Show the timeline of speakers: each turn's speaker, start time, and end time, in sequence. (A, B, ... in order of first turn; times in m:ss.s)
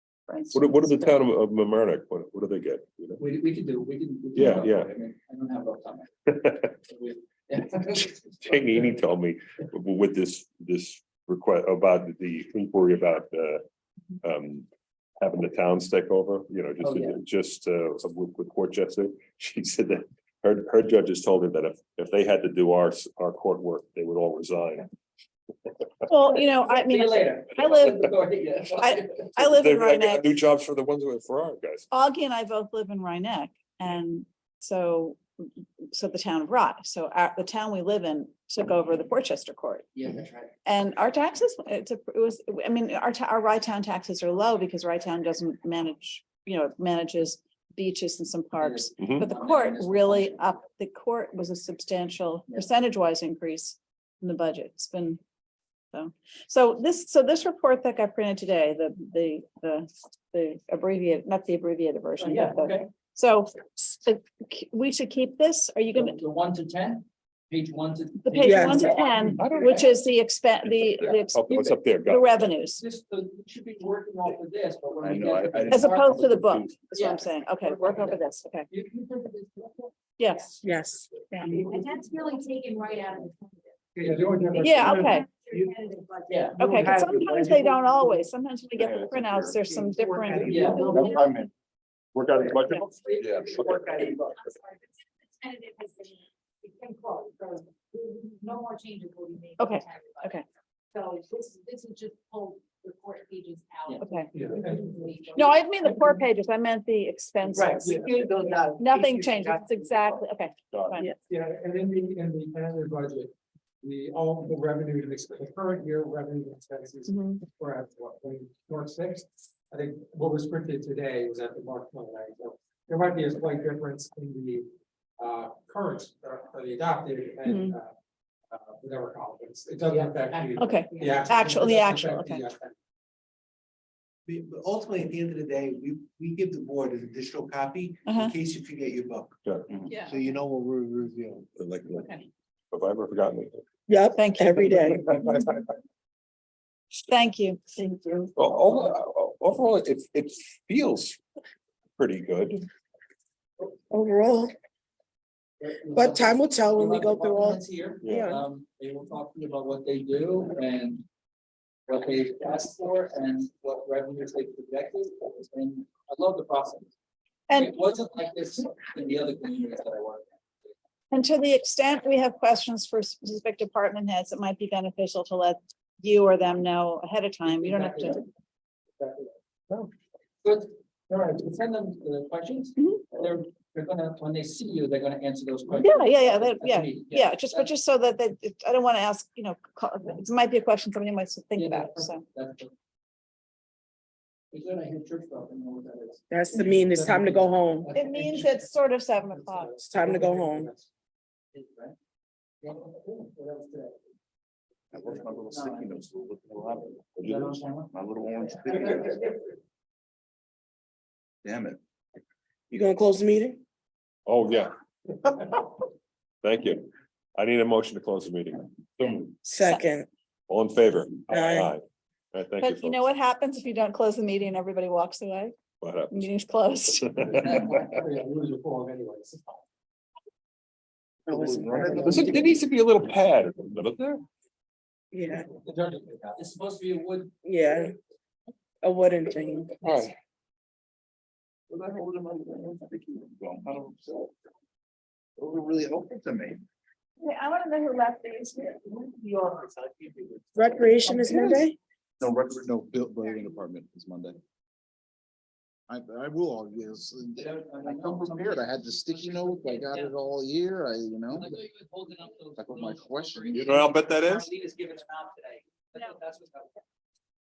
0:00.3-0:01.2 A
0:00.5-0:03.2 B
0:03.2-0:08.6 C
0:04.3-0:04.9 B
0:06.3-0:06.7 B
0:08.4-0:13.6 B
0:14.2-0:14.7 B
0:15.2-0:24.9 B
0:16.8-0:17.2 C
0:26.1-0:28.0 A
0:26.3-0:29.3 C
0:28.8-0:30.3 A
0:29.4-0:31.9 B
0:31.9-0:39.9 A
0:39.9-0:40.5 C
0:40.6-0:55.2 A
0:48.6-0:50.5 C
0:49.0-0:49.3 B
0:55.9-1:06.2 A
1:02.2-1:02.9 C
1:06.0-1:09.9 C
1:08.2-1:12.8 A
1:08.4-1:08.9 D
1:09.4-1:10.0 B
1:10.6-1:12.5 B
1:12.7-1:16.4 C
1:15.0-1:16.7 E
1:15.7-1:18.7 A
1:17.0-1:17.3 F
1:17.7-1:18.1 C
1:18.7-1:20.5 F
1:20.2-1:20.5 A
1:20.6-1:21.4 D
1:21.5-1:21.8 G
1:21.5-1:27.4 F
1:24.0-1:25.7 G
1:24.6-1:25.3 A
1:26.3-1:26.6 C
1:26.6-1:28.2 G
1:26.6-1:31.1 A
1:28.8-1:29.7 B
1:30.3-1:31.4 B
1:30.4-1:31.2 H
1:30.5-1:30.9 C
1:30.6-1:31.2 F
1:32.1-1:34.0 B
1:32.6-1:40.4 F
1:39.6-1:40.4 A
1:40.9-1:46.0 F
1:44.0-1:44.3 A
1:44.3-1:45.1 G
1:45.4-1:48.0 A
1:45.9-1:46.2 G
1:47.5-1:50.1 H
1:47.8-1:48.1 G
1:48.3-1:48.7 F
1:48.8-1:51.1 A
1:50.7-1:51.0 B
1:51.3-1:53.3 G
1:53.8-2:04.7 G
1:57.1-1:57.4 A
2:05.2-2:07.9 G
2:07.5-2:07.8 A
2:08.5-2:12.7 G
2:09.9-2:11.5 F
2:10.6-2:12.4 A
2:14.3-2:19.4 H
2:18.1-2:18.3 A
2:19.4-2:19.7 B
2:20.1-2:21.5 H
2:21.6-2:23.6 B
2:23.9-2:25.1 D
2:24.2-2:25.2 A
2:25.0-2:25.6 B
2:27.1-2:28.3 A
2:28.4-2:31.2 B
2:32.0-2:32.7 B
2:33.9-2:34.5 D
2:35.6-2:41.0 C
2:35.9-2:38.4 D
2:38.0-2:38.4 B
2:41.9-2:46.9 C
2:47.5-2:47.8 A
2:47.5-2:50.3 C
2:51.1-2:58.2 A
2:57.5-2:58.2 C
2:59.0-2:59.3 C
3:00.4-3:07.7 C
3:02.8-3:03.0 A
3:05.8-3:12.2 A
3:11.6-3:12.7 C
3:14.5-3:18.7 C
3:16.3-3:17.9 D
3:17.9-3:19.8 A
3:19.2-3:20.9 G
3:19.8-3:20.7 D
3:21.5-3:22.0 C
3:22.6-3:24.0 C
3:24.9-3:27.4 E
3:25.0-3:26.1 C
3:27.2-3:29.4 C
3:27.9-3:29.2 E
3:31.4-3:31.8 E
3:32.7-3:33.6 D
3:34.3-3:34.7 B
3:36.4-3:39.3 B
3:39.4-3:40.1 D
3:40.5-3:43.1 B
3:41.3-3:41.7 D
3:42.6-3:45.6 A
3:45.8-3:46.3 B
3:46.1-3:47.3 A
3:47.0-3:47.8 B
3:47.4-3:47.8 C
3:47.8-3:49.6 G
3:51.3-3:52.6 E
3:51.3-3:52.2 D
3:52.0-3:54.2 B
3:55.1-3:55.5 D
3:55.6-3:56.3 G
3:56.3-3:57.3 C
3:57.4-3:57.9 D
3:58.8-3:59.8 D
3:59.8-4:00.1 B
4:01.7-4:04.3 E
4:05.4-4:06.6 E
4:07.2-4:09.0 A
4:09.6-4:10.2 E
4:10.6-4:11.8 D
4:12.2-4:14.4 E
4:15.9-4:21.5 E
4:17.3-4:20.2 C
4:21.3-4:26.8 C
4:22.6-4:23.8 E
4:23.5-4:24.5 B